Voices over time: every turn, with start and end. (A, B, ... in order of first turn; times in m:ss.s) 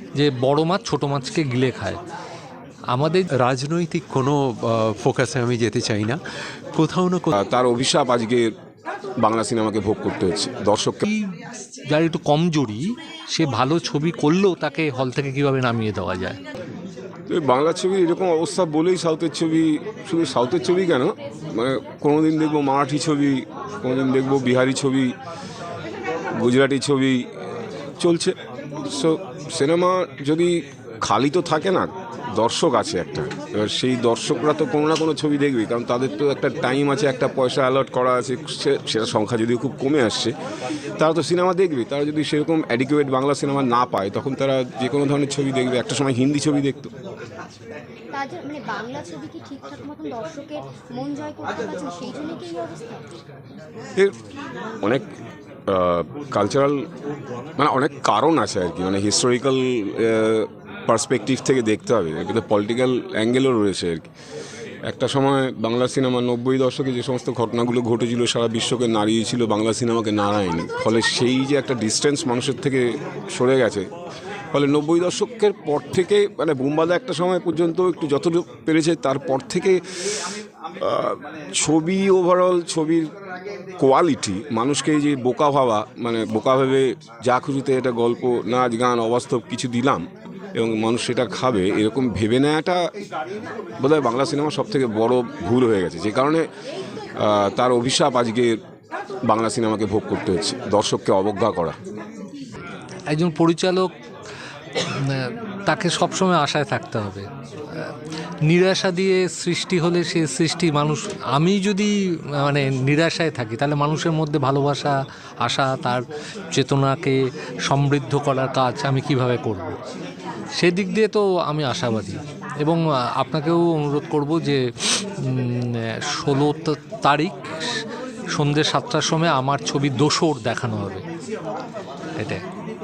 0:00.2-0:02.0 A
0:02.9-0:03.3 A
0:03.4-0:06.2 B
0:06.8-0:07.3 B
0:07.4-0:08.5 C
0:09.2-0:11.0 C
0:11.0-0:11.3 A
0:11.9-0:16.4 A
0:17.3-0:25.1 C
0:26.4-0:27.2 C
0:28.0-0:40.3 C
0:41.0-0:46.9 C
0:48.1-0:53.0 D
0:55.7-0:56.8 C
0:57.6-1:04.1 C
1:04.9-1:13.9 C
1:14.5-1:19.8 C
1:20.8-1:23.1 C
1:23.8-1:30.0 C
1:30.6-1:32.8 C
1:33.8-1:36.4 C
1:37.2-1:38.6 C
1:39.3-1:41.8 C
1:43.1-1:43.9 A
1:45.1-1:47.9 A
1:48.5-1:59.8 A
2:00.6-2:04.6 A
2:05.2-2:07.8 A
2:08.3-2:11.0 A